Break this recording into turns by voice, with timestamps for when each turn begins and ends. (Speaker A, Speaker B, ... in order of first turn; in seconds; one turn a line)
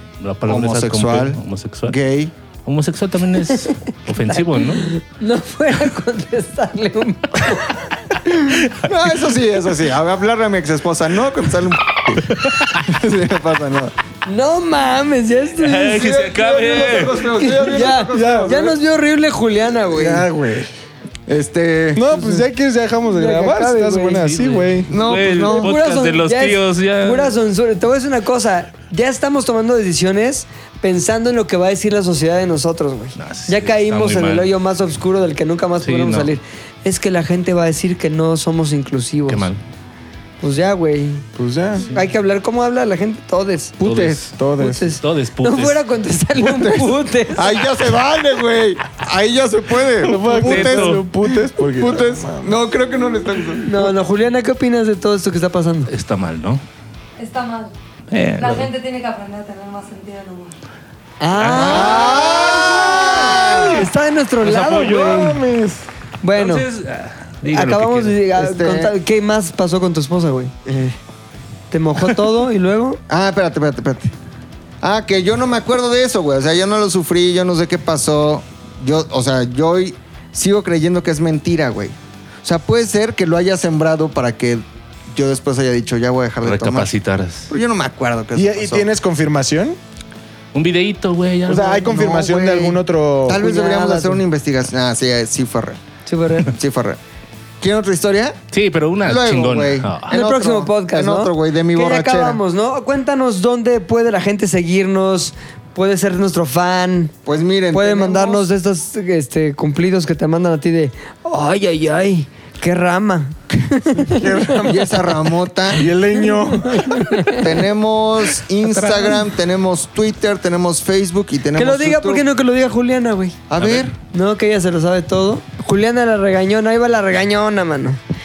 Speaker A: 0.2-2.0
Speaker B: 0.5-2.3
Speaker A: 2.7-4.9
Speaker C: 4.2-7.9
Speaker B: 8.3-13.9
Speaker A: 12.4-12.8
Speaker C: 14.3-16.1
Speaker A: 15.6-17.2
Speaker B: 15.9-18.8
Speaker C: 17.3-20.3
Speaker D: 17.9-18.8
Speaker D: 19.9-20.7
Speaker B: 21.3-22.1
Speaker D: 21.9-24.9
Speaker C: 22.1-22.5
Speaker C: 23.1-24.6
Speaker A: 24.3-27.3
Speaker B: 24.9-25.8
Speaker C: 25.4-39.5
Speaker A: 33.2-34.5
Speaker A: 35.8-36.3
Speaker A: 39.3-39.6
Speaker C: 40.4-41.3
Speaker D: 41.4-41.9
Speaker C: 41.8-47.6
Speaker A: 43.8-44.4
Speaker D: 44.4-44.9
Speaker A: 45.0-45.8
Speaker B: 46.4-51.0
Speaker A: 50.0-51.1
Speaker D: 50.0-52.6
Speaker B: 51.6-53.7
Speaker C: 53.6-55.9
Speaker A: 55.9-56.6
Speaker E: 57.2-57.7
Speaker A: 58.1-58.7
Speaker E: 58.4-60.5
Speaker C: 61.2-65.4
Speaker A: 61.4-62.3
Speaker B: 61.5-63.9
Speaker D: 63.1-63.8
Speaker A: 64.4-65.2
Speaker D: 64.8-65.9
Speaker C: 66.2-66.7
Speaker A: 66.3-68.2
Speaker C: 67.5-70.5
Speaker B: 68.3-69.0
Speaker B: 70.7-71.0
Speaker C: 71.7-73.0
Speaker B: 73.1-74.1
Speaker B: 74.8-87.0
Speaker A: 86.4-87.5
Speaker B: 87.5-88.9
Speaker D: 88.3-89.8
Speaker A: 90.5-91.8
Speaker D: 91.5-93.4
Speaker B: 91.7-95.8
Speaker C: 93.3-94.2
Speaker C: 96.1-96.5
Speaker B: 96.4-97.0
Speaker B: 97.6-98.4
Speaker A: 98.5-100.1
Speaker B: 99.0-102.4
Speaker C: 100.1-107.1
Speaker B: 107.2-108.5
Speaker C: 107.7-114.6
Speaker D: 114.0-115.0
Speaker B: 114.6-115.9
Speaker D: 115.8-117.2
Speaker C: 116.1-117.5
Speaker B: 117.3-122.3
Speaker C: 118.7-119.2
Speaker C: 121.6-123.4
Speaker B: 123.5-124.0
Speaker A: 123.6-123.9
Speaker C: 124.1-128.0